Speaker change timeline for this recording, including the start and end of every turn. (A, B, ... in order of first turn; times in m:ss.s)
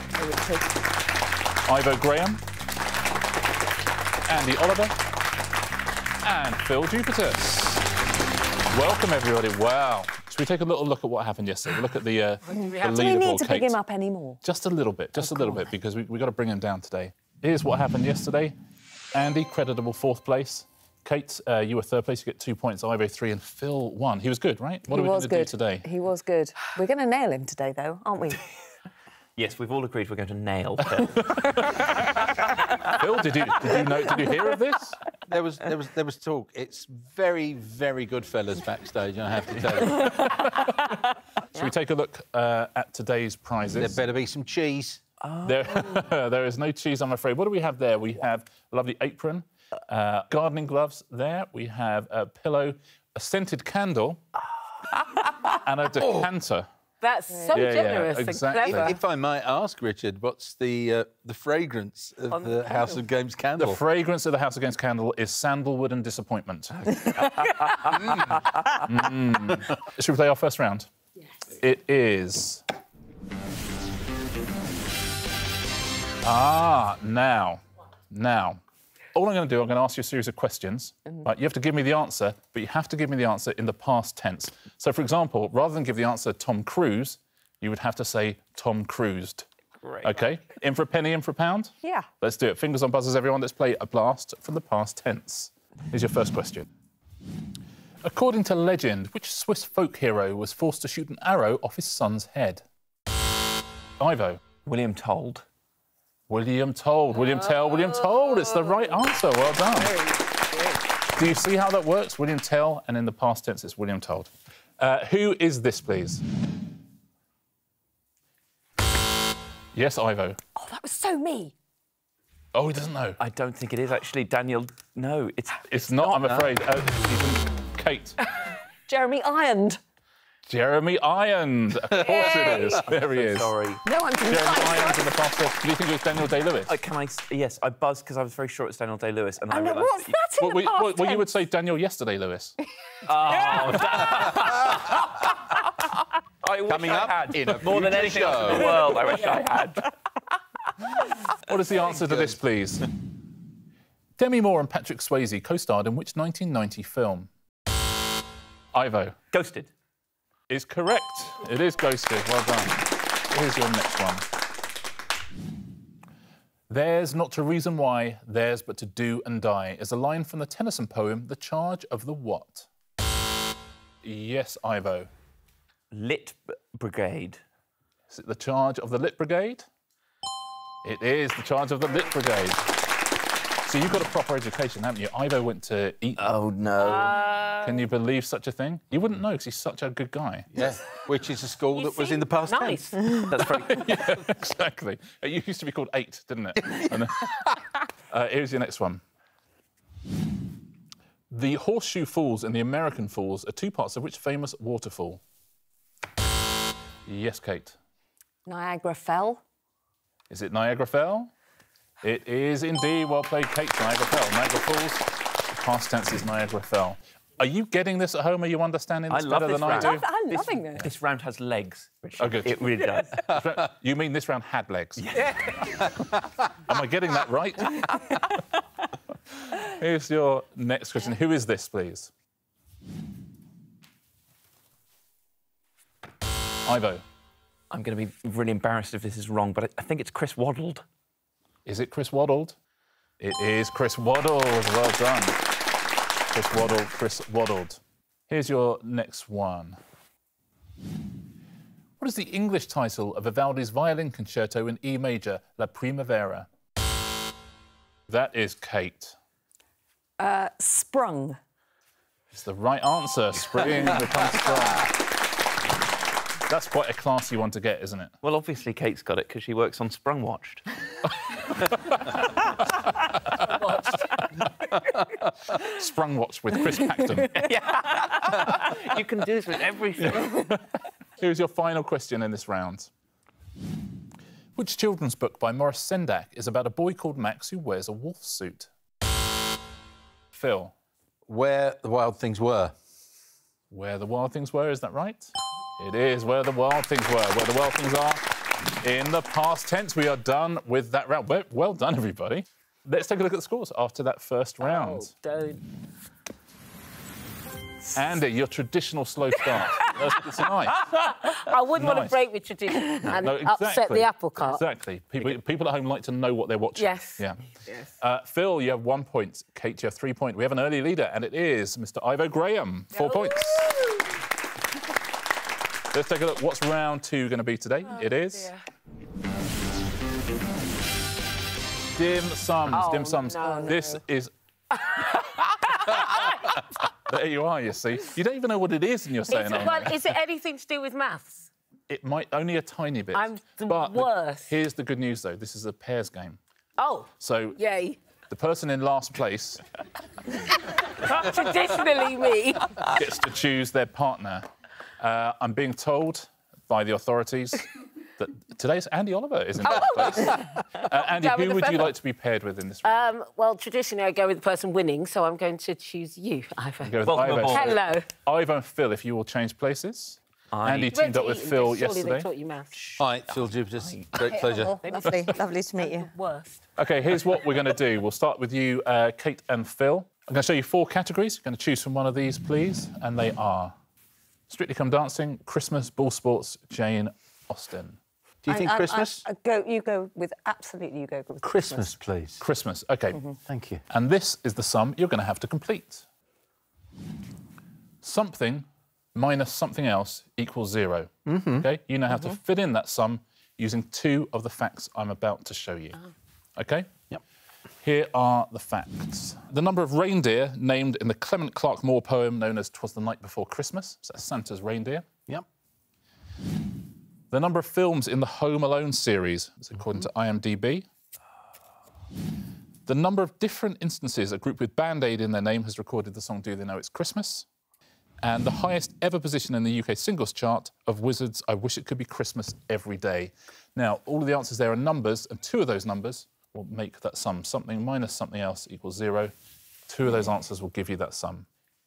0:00.2-0:00.7 A
0:01.6-0:02.4 B
0:04.3-0:05.0 B
0:06.2-0:07.9 B
0:08.7-0:13.8 B
0:12.4-0:13.2 C
0:12.8-0:14.4 A
0:14.4-0:18.6 B
0:15.2-0:15.6 A
0:19.1-0:25.9 B
0:24.9-0:28.4 A
0:29.4-0:31.4 D
0:31.0-0:32.1 B
0:32.9-0:35.0 B
0:35.3-0:40.2 E
0:39.8-0:41.0 B
0:41.5-0:44.0 B
0:43.8-0:45.0 E
0:45.4-0:54.2 B
0:55.4-0:56.7 B
0:57.0-0:59.0 C
0:57.3-0:57.6 A
0:57.5-0:59.0 B
0:58.7-1:03.8 E
1:02.4-1:03.0 C
1:03.6-1:07.3 B
1:07.9-1:10.9 B
1:11.6-1:12.6 B
1:16.2-1:18.6 B
1:19.1-1:29.5 B
1:29.8-1:30.1 D
1:30.0-1:36.7 B
1:31.8-1:32.1 A
1:38.0-1:42.6 B
1:44.0-1:44.4 B
1:44.6-1:45.5 D
1:46.3-1:50.0 B
1:49.6-1:50.8 C
1:51.2-1:56.2 B
1:59.7-2:00.4 B
2:00.6-2:01.5 A
2:02.5-2:03.2 B
2:03.2-2:06.5 D
2:05.7-2:08.2 B
2:08.9-2:09.8 A
2:10.5-2:13.5 B
2:12.1-2:12.7 A
2:12.1-2:12.6 C
2:12.3-2:13.8 D
2:13.8-2:15.1 A
2:14.2-2:16.7 B
2:16.7-2:20.2 D
2:19.5-2:21.3 A
2:20.4-2:22.6 B
2:23.1-2:25.4 D
2:23.7-2:23.9 A
2:24.2-2:24.7 E
2:26.4-2:29.9 D
2:26.6-2:29.1 E
2:31.4-2:32.9 B
2:34.2-2:37.3 B
2:38.7-2:39.2 B
2:39.3-2:39.7 D
2:40.5-2:44.2 B
2:46.7-2:52.7 B
2:54.0-2:55.1 B
2:55.9-2:57.4 D
2:58.1-2:59.7 B
3:00.8-3:02.6 B
3:03.6-3:06.3 B
3:06.2-3:07.3 D
3:06.8-3:07.8 C
3:07.6-3:10.5 B
3:10.5-3:13.0 E
3:11.7-3:13.2 C
3:13.3-3:13.8 D
3:13.4-3:17.6 B
3:18.1-3:19.0 B
3:21.3-3:25.2 B
3:27.0-3:27.8 B
3:28.5-3:29.4 A
3:30.3-3:31.3 B
3:32.0-3:40.1 B
3:39.1-3:43.3 D
3:39.7-3:40.9 A
3:42.2-3:45.1 B
3:45.0-3:45.9 D
3:46.7-3:48.3 B
3:49.4-3:52.1 B
3:56.7-3:57.0 B
3:57.7-4:00.8 D
4:01.7-4:02.6 B
4:03.2-4:05.4 B
4:06.3-4:09.8 B
4:12.0-4:16.5 B
4:18.1-4:19.2 B
4:20.2-4:21.4 A
4:22.3-4:24.9 B
4:26.5-4:28.1 B
4:28.2-4:30.6 D
4:31.4-4:31.7 D
4:31.8-4:32.2 B
4:33.3-4:33.9 B
4:34.7-4:37.5 B
4:37.4-4:40.5 D
4:38.4-4:38.8 B
4:40.0-4:40.6 B
4:41.2-4:42.9 B
4:44.6-4:48.7 B
4:50.3-4:50.7 B
4:51.3-4:52.7 E
4:53.7-5:05.1 B
5:04.6-5:05.6 C
5:07.9-5:11.0 B
5:10.8-5:14.6 C
5:11.7-5:12.2 B
5:13.0-5:17.4 B
5:16.8-5:17.9 C
5:18.0-5:23.8 B
5:22.9-5:24.0 C
5:25.9-5:28.5 B
5:28.3-5:28.6 C
5:32.0-5:34.3 B
5:32.7-5:34.0 C
5:33.3-5:33.8 A
5:34.8-5:36.5 C
5:34.9-5:40.1 B
5:39.3-5:41.5 C
5:41.9-5:46.4 B
5:43.1-5:44.5 C
5:46.8-5:48.0 C
5:47.2-5:47.6 B
5:48.3-5:49.6 B
5:50.4-5:53.0 C
5:52.9-5:54.5 B
5:55.0-6:03.0 B
5:59.6-6:01.9 C
6:02.8-6:08.1 C
6:06.8-6:12.3 B
6:07.0-6:07.8 D
6:10.5-6:11.0 D
6:10.9-6:12.8 C
6:12.8-6:14.1 D
6:13.0-6:14.8 E
6:14.3-6:16.1 A
6:14.4-6:16.6 C
6:16.8-6:23.8 B
6:24.5-6:28.0 B
6:28.4-6:29.3 E
6:28.5-6:32.0 A
6:31.4-6:32.4 E
6:32.4-6:33.2 B
6:33.4-6:33.8 E
6:33.9-6:36.0 B
6:38.0-6:46.0 B
6:41.3-6:41.7 E
6:46.6-6:47.0 B
6:47.8-6:55.1 B
6:57.3-7:00.9 B
7:02.9-7:07.5 B
7:08.2-7:19.3 B
7:19.9-7:21.5 B